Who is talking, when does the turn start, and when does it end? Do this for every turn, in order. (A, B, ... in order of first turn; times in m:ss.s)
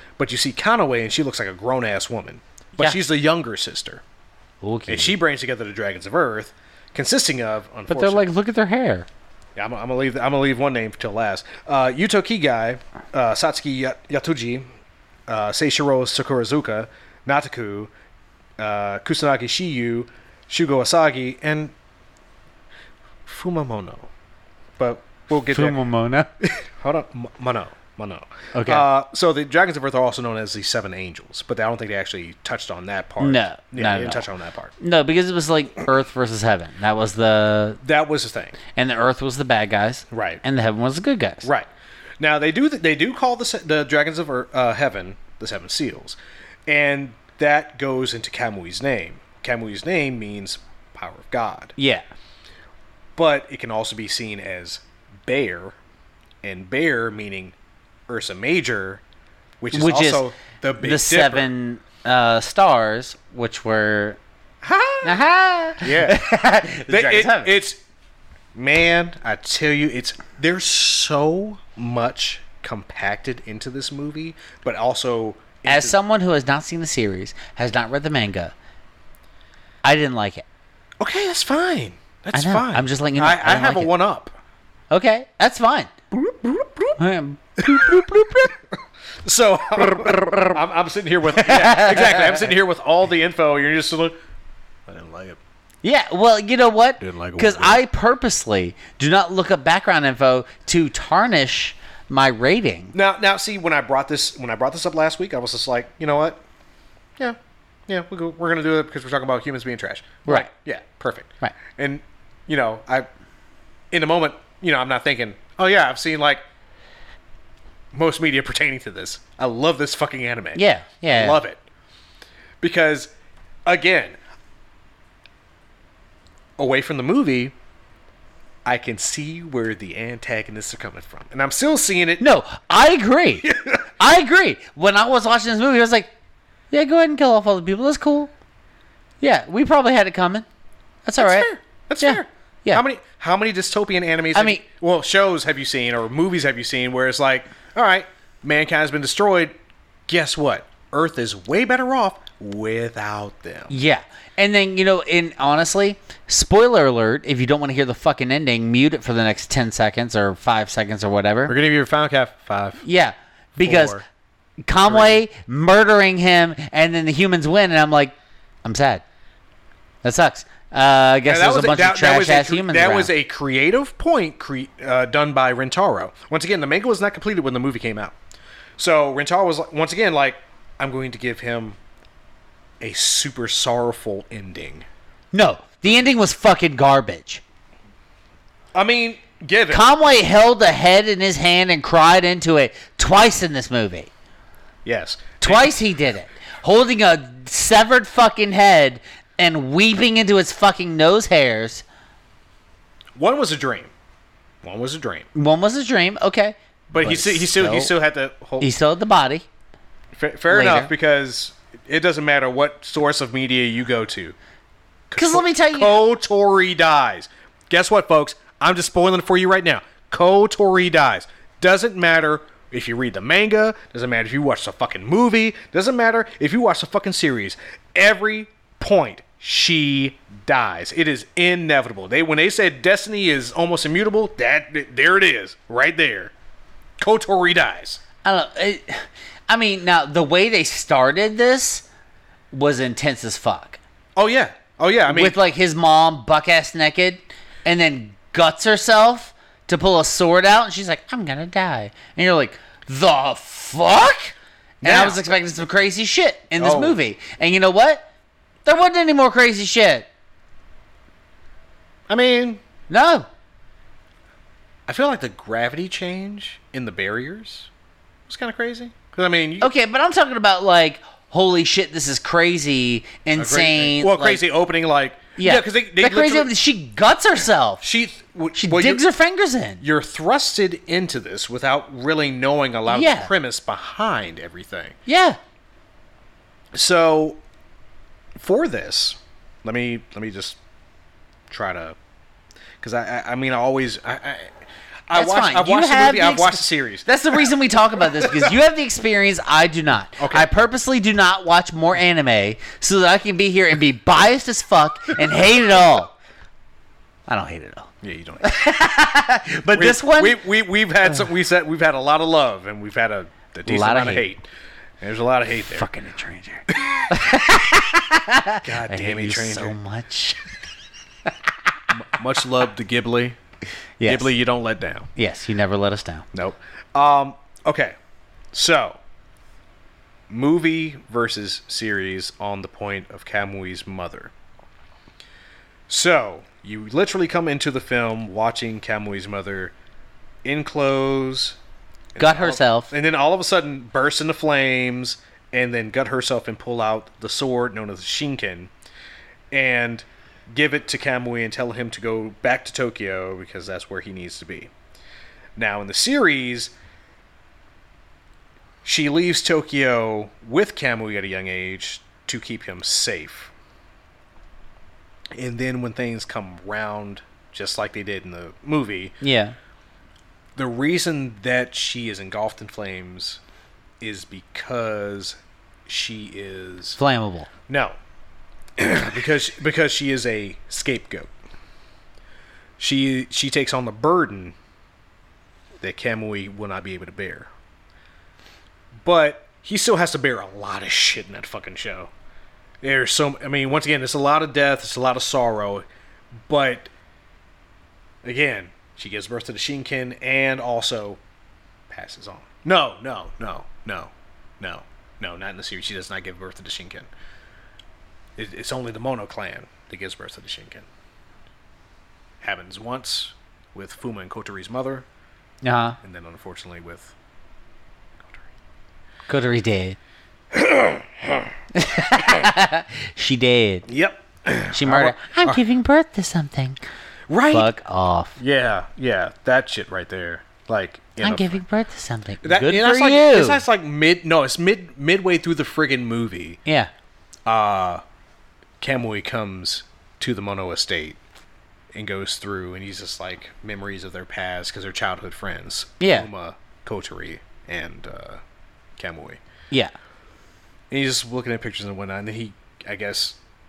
0:00.2-0:04.0 A
0:04.6-0:05.2 B
0:04.9-0:08.2 A
0:07.9-0:09.1 B
0:09.6-0:14.6 A
0:15.3-0:17.9 A
0:18.6-0:21.7 A
0:23.2-0:24.1 A
0:24.8-0:25.8 A
0:25.4-0:26.3 B
0:26.4-0:34.7 A
0:28.5-0:28.8 B
0:33.2-0:34.2 B
0:34.8-0:37.8 B
0:37.8-0:38.6 A
0:38.7-0:41.5 B
0:40.1-0:40.4 A
0:41.4-0:41.7 A
0:42.2-0:51.8 A
0:51.8-0:52.0 B
0:53.2-0:55.8 A
0:56.4-0:57.5 A
0:58.1-0:59.0 A
0:59.6-1:01.5 A
0:59.7-1:00.3 B
1:00.8-1:04.2 B
1:04.6-1:05.2 A
1:05.0-1:07.6 B
1:05.8-1:06.2 A
1:06.9-1:07.8 A
1:08.5-1:16.0 A
1:15.6-1:18.5 B
1:19.8-1:20.4 B
1:21.0-1:24.3 A
1:22.3-1:23.9 B
1:24.9-1:25.9 B
1:26.1-1:27.0 A
1:27.0-1:28.5 B
1:27.6-1:28.2 A
1:29.2-1:34.1 A
1:31.3-1:32.5 B
1:34.9-1:35.4 A
1:35.8-1:42.9 B
1:37.0-1:37.8 A
1:42.9-1:46.4 A
1:47.2-1:53.1 A
1:53.9-1:56.4 A
1:57.9-2:01.6 A
2:00.5-2:01.4 B
2:02.6-2:03.1 A
2:03.6-2:04.2 A
2:06.6-2:07.5 A
2:08.6-2:12.2 A
2:12.2-2:16.1 B
2:13.4-2:13.8 A
2:16.7-2:18.3 B
2:19.2-2:20.4 B
2:21.0-2:22.8 B
2:21.2-2:29.5 A
2:24.3-2:24.6 B
2:30.1-2:33.7 A
2:33.7-2:41.5 B
2:41.5-2:42.8 A
2:42.8-2:44.0 B
2:43.6-2:44.0 A
2:44.6-2:49.0 B
2:44.8-2:45.2 A
2:50.0-2:53.1 B
2:51.2-2:58.2 A
2:58.8-3:01.8 A
3:02.8-3:04.8 A
3:05.3-3:07.4 B
3:08.7-3:09.9 A
3:09.7-3:14.1 B
3:14.8-3:15.7 A
3:15.4-3:21.8 B
3:23.2-3:23.9 A
3:24.6-3:25.3 A
3:25.3-3:27.9 B
3:26.9-3:28.7 A
3:28.6-3:29.4 B
3:30.1-3:34.4 A
3:30.5-3:30.9 B
3:35.1-3:56.3 A
3:35.2-3:36.0 B
3:57.0-3:58.0 A
3:58.2-4:01.8 B
4:02.5-4:03.8 B
4:04.2-4:05.4 A
4:05.1-4:18.0 B
4:14.8-4:15.2 A
4:16.6-4:17.0 A
4:18.6-4:20.1 B
4:22.1-4:22.6 A
4:22.9-4:23.3 B
4:24.9-4:27.7 A
4:28.3-4:29.7 A
4:29.6-4:34.4 B
4:33.4-4:36.5 A
4:35.4-4:37.8 B
4:37.8-4:39.0 A
4:38.6-4:39.8 B
4:39.8-4:45.0 A
4:42.9-4:43.3 B
4:45.0-4:45.4 B
4:46.7-4:47.4 A
4:48.4-4:50.6 A
4:51.5-4:52.0 A
4:52.8-4:58.5 A
4:55.1-5:06.1 B
5:00.2-5:00.5 A
5:07.3-5:10.4 B
5:08.0-5:08.6 A
5:09.7-5:14.5 A
5:13.6-5:14.2 B
5:15.0-5:15.9 A
5:15.7-5:20.4 B
5:16.7-5:17.1 A
5:18.6-5:19.8 A
5:21.9-5:23.4 A
5:24.0-5:24.3 B
5:24.0-5:25.1 A
5:25.2-5:26.2 B
5:26.3-5:27.9 A
5:28.5-5:29.0 A
5:30.3-5:34.3 A
5:35.9-5:39.7 A
5:40.4-5:41.6 A
5:42.1-5:48.7 A
5:42.2-5:42.9 B
5:49.5-5:54.7 A
5:55.6-5:56.7 A
5:58.8-6:03.5 A
6:05.3-6:09.2 A
6:09.2-6:09.6 B
6:10.6-6:13.4 A
6:14.0-6:17.0 A
6:17.0-6:17.5 B
6:17.7-6:18.0 A
6:18.8-6:21.3 A
6:22.8-6:24.5 A
6:25.8-6:27.5 A
6:29.0-6:32.1 A
6:32.8-6:35.8 A
6:36.5-6:36.9 A
6:38.2-6:41.2 A
6:41.9-6:47.1 A
6:48.4-6:50.9 A
6:52.4-6:55.0 A
6:55.6-6:56.0 B
6:56.0-6:57.1 A
6:58.2-6:58.5 A
6:59.3-7:00.0 B
7:00.5-7:01.5 A
7:01.7-7:03.9 B
7:02.2-7:02.5 A
7:03.9-7:05.6 A
7:04.7-7:06.8 B
7:07.3-7:07.7 A
7:07.5-7:08.4 B
7:08.4-7:11.6 A
7:11.2-7:13.6 B
7:12.4-7:16.6 A
7:16.6-7:16.9 B
7:17.4-7:18.0 A
7:18.8-7:21.2 A
7:21.9-7:28.4 A
7:26.0-7:26.3 B
7:29.0-7:29.4 A
7:30.9-7:33.4 A